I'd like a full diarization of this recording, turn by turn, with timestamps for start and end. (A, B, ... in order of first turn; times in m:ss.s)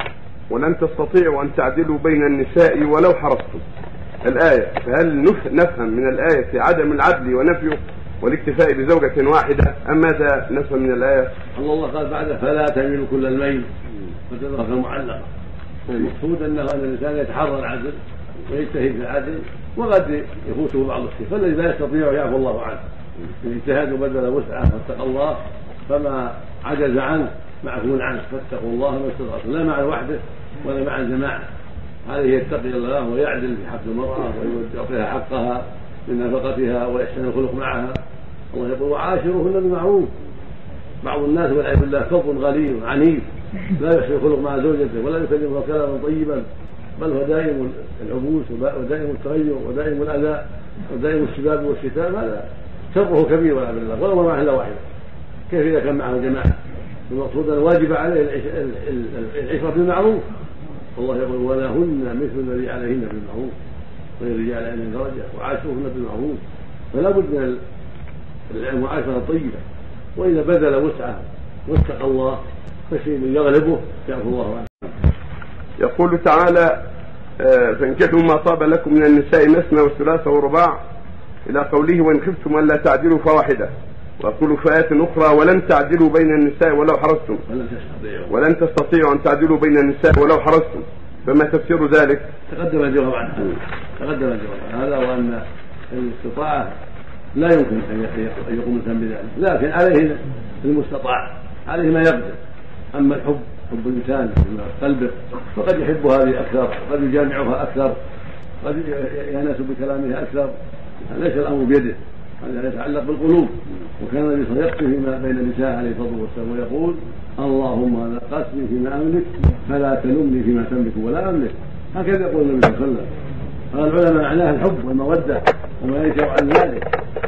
0:00.5-0:03.6 A
0:04.2-0:11.3 A
0:11.6-0:13.7 B
0:14.3-0:15.3 B
0:15.9-0:22.8 B
0:23.4-0:31.4 B
0:32.0-0:38.0 B
0:38.5-0:40.1 B
0:41.0-0:46.5 B
0:47.0-0:54.8 B
0:55.5-1:00.2 B
1:01.0-1:03.5 B
1:04.2-1:06.4 B
1:06.9-1:07.6 B
1:08.5-1:09.6 B
1:10.2-1:14.7 B
1:15.8-1:16.8 A
1:17.4-1:20.8 A
1:21.4-1:27.4 A
1:27.5-1:28.3 B
1:28.3-1:32.3 A
1:32.5-1:36.7 B
1:37.3-1:42.4 B
1:42.9-1:48.0 B
1:48.6-1:50.5 B
1:51.0-2:03.1 B
2:03.7-2:06.9 B